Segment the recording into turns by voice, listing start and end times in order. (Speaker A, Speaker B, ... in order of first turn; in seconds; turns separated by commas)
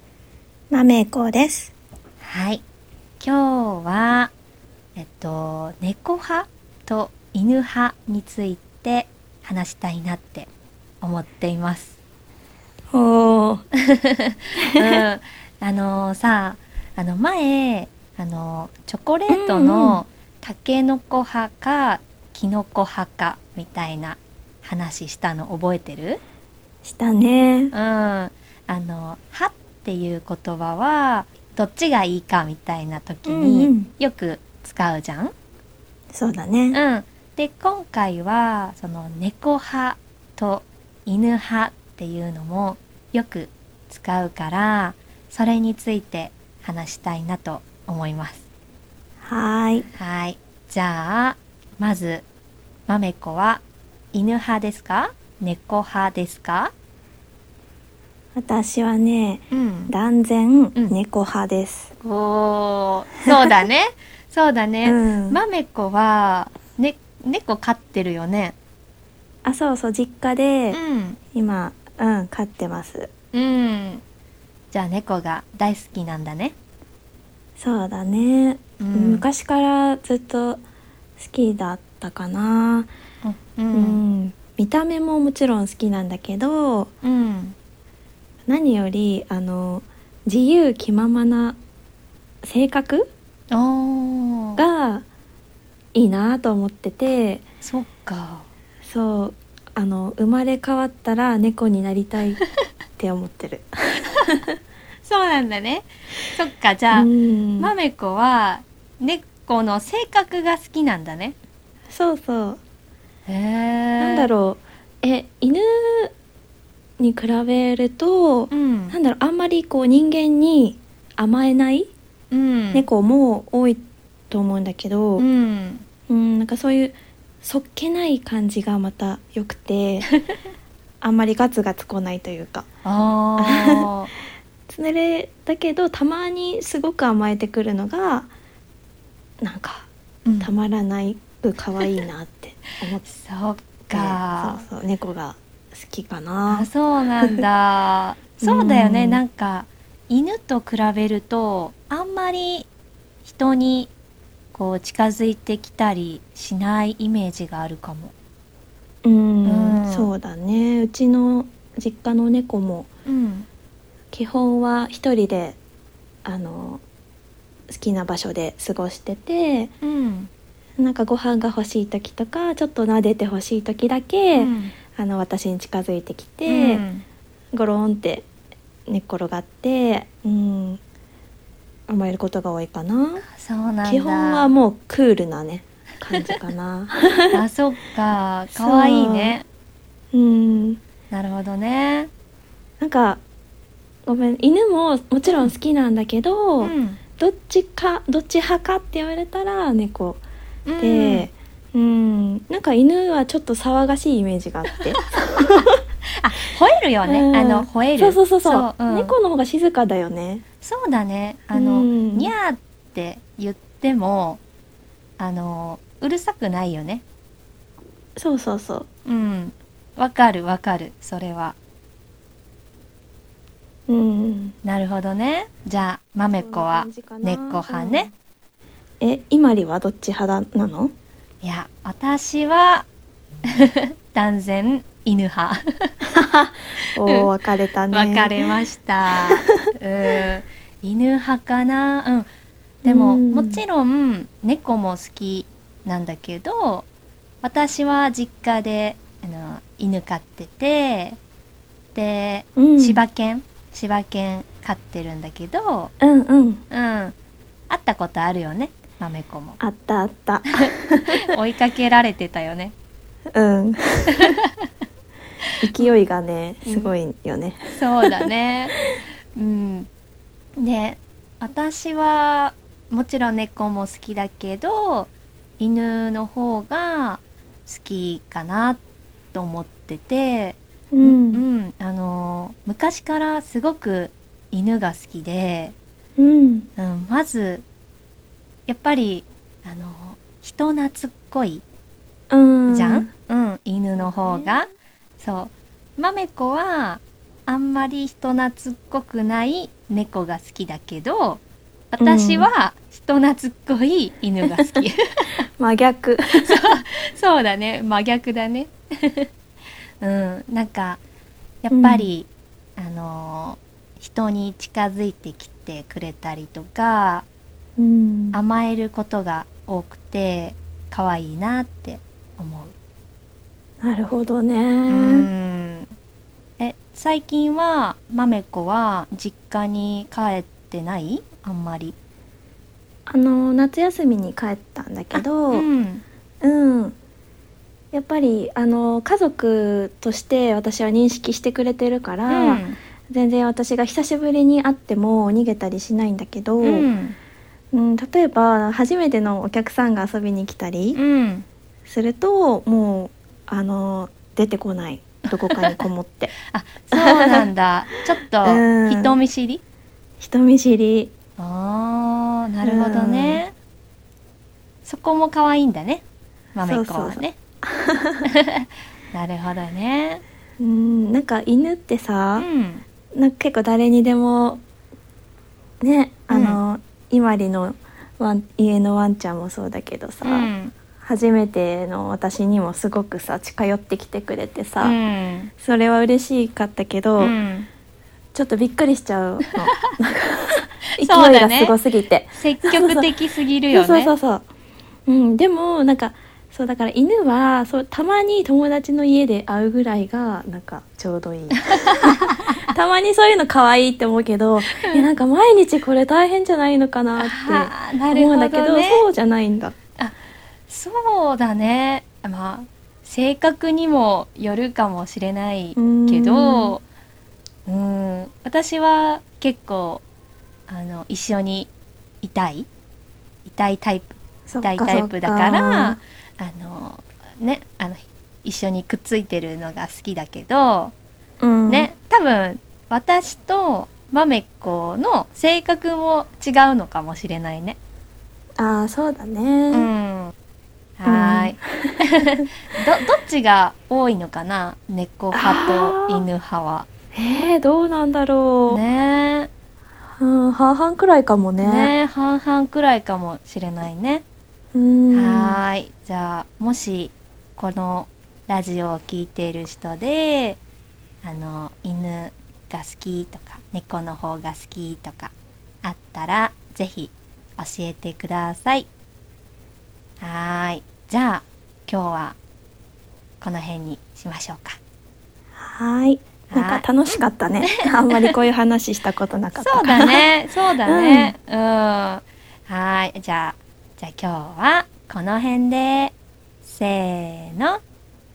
Speaker A: 0.7-1.7, Speaker B: 2.2-2.6, Speaker B: 3.2-4.3, Speaker B: 5.0-10.5, Speaker B: 11.0-12.0, Speaker A: 12.9-13.7, Speaker B: 13.9-26.2, Speaker A: 14.7-15.0, Speaker A: 19.3-20.0, Speaker A: 26.8-27.7, Speaker B: 27.7-35.3, Speaker A: 33.3-33.9, Speaker A: 36.1-36.8, Speaker B: 36.7-48.4, Speaker A: 49.2-49.9, Speaker B: 49.9-52.2, Speaker B: 52.9-56.7, Speaker A: 58.4-61.9, Speaker B: 59.5-59.9, Speaker B: 62.0-68.5, Speaker A: 64.8-65.4, Speaker A: 69.5-70.8, Speaker B: 70.7-71.2, Speaker A: 71.3-73.1, Speaker B: 73.3-74.0, Speaker B: 74.7-76.5, Speaker A: 77.6-80.6, Speaker B: 78.8-79.2, Speaker A: 81.2-82.9, Speaker B: 83.2-84.0, Speaker A: 83.7-86.9, Speaker B: 87.0-87.5, Speaker A: 88.5-91.6, Speaker A: 92.4-93.1, Speaker B: 93.5-94.6, Speaker A: 94.6-95.1, Speaker A: 96.0-97.4, Speaker B: 97.6-98.5, Speaker A: 98.8-102.4, Speaker A: 103.0-104.4, Speaker B: 105.0-111.4, Speaker A: 106.9-107.7, Speaker A: 111.9-112.6, Speaker B: 113.3-114.3, Speaker A: 114.0-116.1, Speaker A: 117.0-121.9, Speaker B: 118.5-119.0, Speaker B: 122.3-122.9, Speaker A: 122.7-125.3, Speaker B: 125.2-125.8, Speaker A: 126.1-130.1, Speaker A: 131.0-132.7, Speaker B: 132.8-134.1, Speaker A: 133.4-133.9, Speaker A: 134.7-138.3, Speaker A: 139.4-139.9, Speaker B: 140.2-140.5, Speaker A: 140.4-143.1, Speaker B: 143.1-144.6, Speaker A: 143.9-146.7, Speaker B: 146.5-152.7, Speaker A: 148.4-149.2, Speaker B: 153.2-153.9, Speaker B: 154.5-158.1, Speaker A: 159.0-162.9, Speaker B: 159.4-160.1, Speaker B: 163.1-163.5, Speaker A: 164.1-165.6, Speaker A: 166.2-166.8, Speaker A: 167.7-169.7, Speaker B: 169.8-170.3, Speaker A: 170.8-176.9, Speaker B: 174.3-174.8, Speaker B: 176.5-177.1, Speaker A: 177.5-178.3, Speaker A: 178.9-180.8, Speaker A: 181.9-183.2, Speaker B: 183.3-184.5, Speaker A: 183.8-187.4, Speaker B: 186.1-186.4, Speaker B: 187.3-189.4, Speaker A: 188.6-189.4, Speaker A: 190.1-190.8, Speaker B: 191.1-192.1, Speaker A: 192.8-193.2, Speaker A: 194.1-200.2, Speaker B: 196.6-197.0, Speaker B: 200.7-201.3, Speaker A: 200.8-205.8, Speaker B: 206.1-209.2, Speaker A: 207.1-210.4, Speaker B: 210.6-214.4, Speaker A: 211.5-212.3, Speaker B: 215.2-217.0, Speaker A: 218.2-218.9, Speaker B: 219.1-221.6, Speaker A: 223.9-224.6, Speaker B: 224.6-228.1, Speaker A: 226.4-228.1, Speaker A: 229.0-230.9, Speaker B: 231.4-232.9, Speaker B: 233.5-235.9, Speaker A: 236.1-238.5, Speaker B: 237.9-242.3, Speaker B: 242.8-246.9, Speaker A: 242.8-243.6, Speaker B: 247.4-251.2, Speaker B: 251.9-255.9, Speaker A: 252.6-253.0, Speaker A: 256.0-256.6, Speaker B: 256.7-257.1, Speaker B: 257.7-259.6, Speaker A: 259.6-261.2, Speaker B: 260.6-262.7, Speaker A: 263.3-264.4, Speaker A: 265.6-268.3, Speaker B: 266.6-266.9, Speaker B: 267.7-268.8, Speaker B: 269.4-269.9, Speaker B: 270.6-278.8, Speaker B: 279.3-285.8, Speaker A: 280.9-281.4, Speaker A: 286.2-286.7, Speaker B: 286.8-287.6, Speaker B: 288.7-291.6, Speaker A: 292.3-293.1, Speaker B: 292.7-305.3, Speaker A: 294.0-294.6, Speaker A: 302.0-302.5, Speaker A: 305.6-306.7, Speaker B: 306.4-309.3, Speaker B: 310.0-311.0, Speaker B: 311.6-317.3, Speaker A: 311.7-312.1, Speaker A: 317.8-318.4, Speaker B: 318.3-322.7, Speaker A: 323.8-325.3, Speaker B: 324.9-325.9, Speaker B: 326.6-331.9, Speaker A: 333.1-335.7, Speaker B: 335.1-336.0, Speaker A: 336.4-337.0, Speaker A: 337.9-346.9, Speaker B: 342.3-342.8, Speaker B: 346.6-347.2, Speaker A: 347.7-351.0, Speaker B: 350.9-351.4, Speaker A: 351.9-356.3, Speaker B: 355.5-355.8, Speaker B: 356.5-359.6, Speaker A: 356.9-357.5, Speaker A: 358.4-359.1, Speaker A: 360.2-361.1, Speaker B: 361.4-363.5, Speaker A: 362.6-363.4, Speaker B: 364.9-367.4, Speaker A: 366.6-368.3, Speaker B: 368.2-370.2, Speaker A: 370.6-372.5, Speaker B: 372.4-372.9, Speaker A: 373.1-374.6, Speaker A: 375.8-385.0, Speaker B: 376.3-376.6, Speaker B: 380.2-380.8, Speaker B: 384.8-385.5, Speaker A: 385.6-387.4, Speaker B: 387.2-387.7, Speaker A: 388.3-393.1, Speaker B: 391.0-391.8, Speaker B: 392.4-394.1, Speaker A: 393.7-394.5, Speaker A: 395.1-409.8, Speaker B: 401.7-402.7, Speaker B: 404.7-405.1, Speaker B: 407.2-409.1, Speaker B: 410.7-416.8, Speaker A: 415.8-416.8, Speaker B: 417.7-420.0, Speaker B: 420.7-421.7, Speaker B: 422.2-422.7, Speaker B: 423.4-430.9, Speaker A: 424.5-426.0, Speaker A: 431.4-431.9, Speaker B: 431.7-437.8, Speaker A: 438.6-439.9, Speaker B: 439.7-440.3, Speaker B: 441.0-446.9, Speaker A: 441.1-442.1, Speaker A: 445.3-446.2, Speaker A: 447.1-448.8, Speaker B: 448.7-449.5, Speaker A: 450.2-451.9, Speaker B: 451.6-454.2, Speaker A: 454.7-455.6, Speaker B: 455.1-460.6, Speaker B: 461.2-465.3, Speaker B: 465.8-468.9, Speaker B: 470.2-472.4, Speaker B: 473.4-474.8, Speaker A: 475.6-480.3, Speaker B: 476.5-478.4, Speaker B: 479.5-487.8, Speaker A: 480.9-481.3